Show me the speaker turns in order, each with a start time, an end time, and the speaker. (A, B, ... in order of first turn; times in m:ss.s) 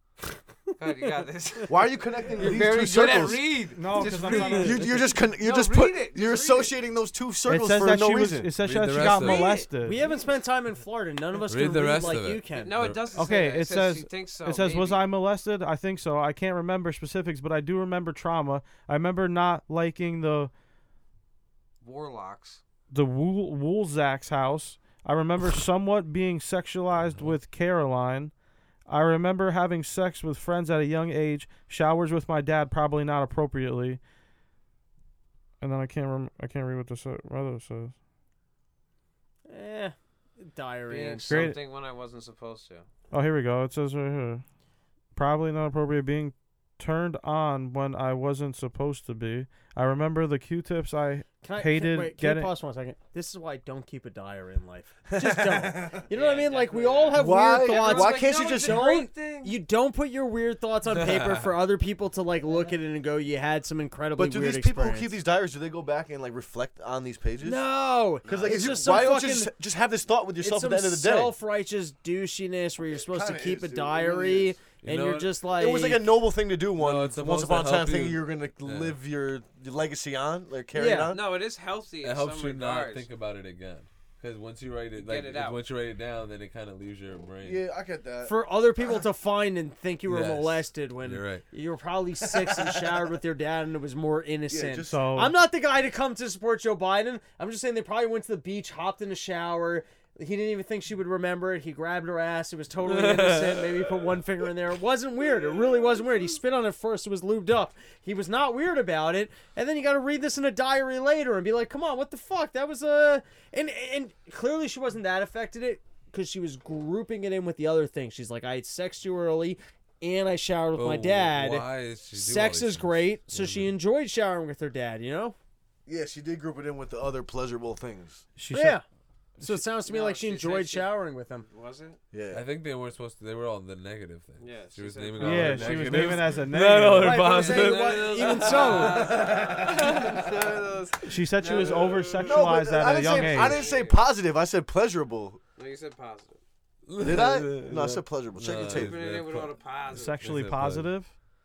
0:00.8-0:06.7 A
0:01.7-0:03.7 B
0:03.7-0:04.9 C
0:04.0-0:04.4 D
0:04.6-0:08.5 B
0:07.5-0:10.0 C
0:08.6-0:09.5 E
0:09.0-0:09.7 A
0:09.8-0:12.8 D
0:11.5-0:13.0 E
0:12.6-0:15.1 A
0:13.1-0:20.5 C
0:21.8-0:22.6 A
0:22.9-0:28.3 C
0:28.9-0:34.0 C
0:35.6-0:37.9 C
0:39.5-0:41.5 D
0:40.9-0:42.9 A
0:41.3-0:41.6 C
0:43.1-0:44.4 C
0:45.2-0:52.5 C
0:51.4-1:05.1 D
0:55.1-0:56.0 B
0:56.1-0:59.6 A
0:57.1-0:59.0 B
1:00.9-1:01.5 E
1:04.2-1:07.6 B
1:07.4-1:09.5 D
1:08.2-1:11.4 B
1:08.3-1:08.6 A
1:10.4-1:16.1 D
1:12.9-1:14.6 B
1:14.8-1:15.3 E
1:15.5-1:21.3 B
1:16.8-1:19.0 E
1:20.7-1:21.2 D
1:20.9-1:23.1 A
1:22.0-1:27.6 E
1:25.0-1:25.6 A
1:27.4-1:28.4 B
1:28.2-2:05.4 D
1:30.1-1:31.4 E
1:32.3-1:33.0 B
1:34.5-1:35.1 B
1:34.9-1:35.4 C
1:42.8-1:44.0 E
2:00.7-2:03.8 E
2:05.9-2:08.3 B
2:08.4-2:08.8 C
2:08.5-2:08.8 D
2:09.4-2:11.5 D
2:09.8-2:10.9 A
2:11.4-2:12.0 A
2:12.1-2:12.5 B
2:12.3-2:19.0 E
2:14.4-2:16.2 A
2:15.2-2:17.3 C
2:17.0-2:19.1 D
2:17.4-2:24.0 A
2:18.9-2:20.6 B
2:21.1-2:23.6 C
2:22.2-2:25.4 B
2:25.6-2:26.4 A
2:26.9-2:29.6 E
2:27.0-2:29.0 B
2:28.5-2:30.2 A
2:29.9-2:31.1 C
2:30.2-2:30.9 E